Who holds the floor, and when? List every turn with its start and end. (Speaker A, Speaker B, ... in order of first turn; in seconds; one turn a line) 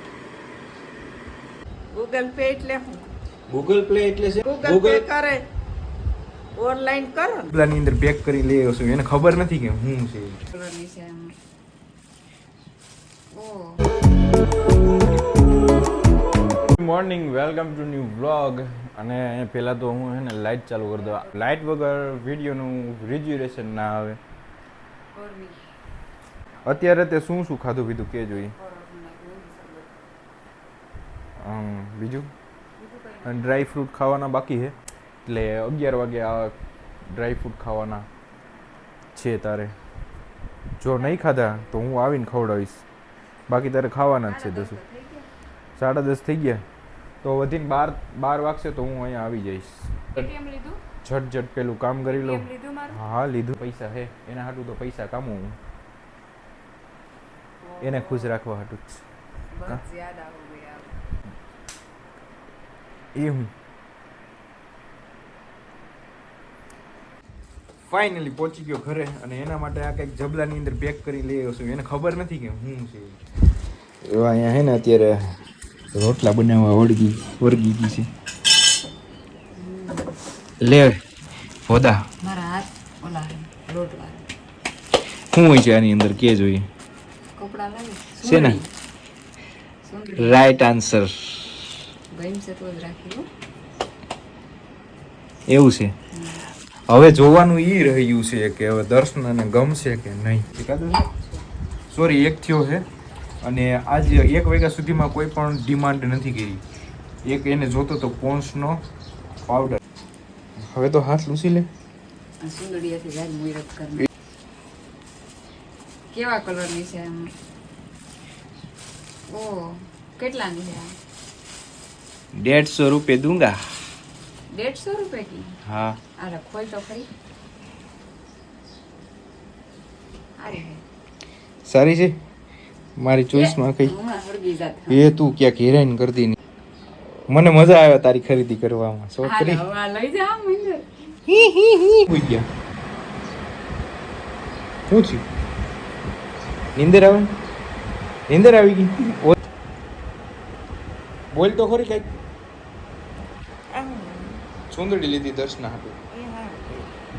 Speaker A: 1.9-3.1
Speaker B: 3.5-5.0
Speaker A: 4.4-5.4
Speaker A: 6.5-7.5
Speaker B: 7.5-10.4
Speaker C: 10.5-11.3
Speaker C: 13.3-13.9
Speaker B: 16.6-24.2
Speaker C: 25.1-25.6
Speaker B: 26.6-28.5
Speaker C: 28.3-29.9
Speaker B: 31.4-32.3
Speaker C: 32.8-33.6
Speaker B: 33.2-36.5
Speaker B: 37.1-38.1
Speaker B: 39.1-39.7
Speaker B: 40.8-42.8
Speaker C: 40.9-41.8
Speaker B: 43.5-44.8
Speaker C: 44.2-45.3
Speaker B: 45.8-46.6
Speaker B: 47.2-50.3
Speaker C: 50.1-50.8
Speaker B: 51.0-55.5
Speaker C: 52.1-53.0
Speaker C: 57.6-58.3
Speaker B: 57.8-59.0
Speaker C: 59.5-61.0
Speaker B: 63.1-63.5
Speaker B: 67.8-73.2
Speaker B: 74.0-75.4
Speaker B: 75.9-78.1
Speaker C: 79.6-80.1
Speaker B: 80.6-81.0
Speaker B: 81.7-82.1
Speaker C: 82.2-84.3
Speaker B: 85.3-86.7
Speaker C: 87.3-88.7
Speaker B: 88.2-88.6
Speaker C: 89.8-90.5
Speaker B: 90.2-91.6
Speaker C: 92.1-93.3
Speaker B: 95.5-95.9
Speaker C: 96.1-96.4
Speaker B: 96.9-101.0
Speaker C: 101.0-101.4
Speaker B: 101.9-102.8
Speaker B: 103.4-106.6
Speaker B: 107.2-108.8
Speaker B: 109.5-109.8
Speaker B: 110.6-111.7
Speaker C: 112.4-114.1
Speaker C: 116.1-117.3
Speaker C: 119.3-120.9
Speaker B: 122.3-123.6
Speaker C: 124.5-125.5
Speaker B: 125.6-126.0
Speaker C: 126.2-127.0
Speaker C: 130.4-130.8
Speaker B: 131.7-132.2
Speaker B: 133.0-133.9
Speaker C: 133.3-135.1
Speaker B: 134.9-136.4
Speaker B: 137.3-139.6
Speaker C: 139.2-141.1
Speaker B: 141.3-142.4
Speaker B: 144.9-145.2
Speaker B: 146.8-147.3
Speaker B: 148.3-149.4
Speaker B: 151.3-152.1
Speaker A: 153.7-154.4
Speaker B: 154.7-155.9
Speaker A: 156.1-156.8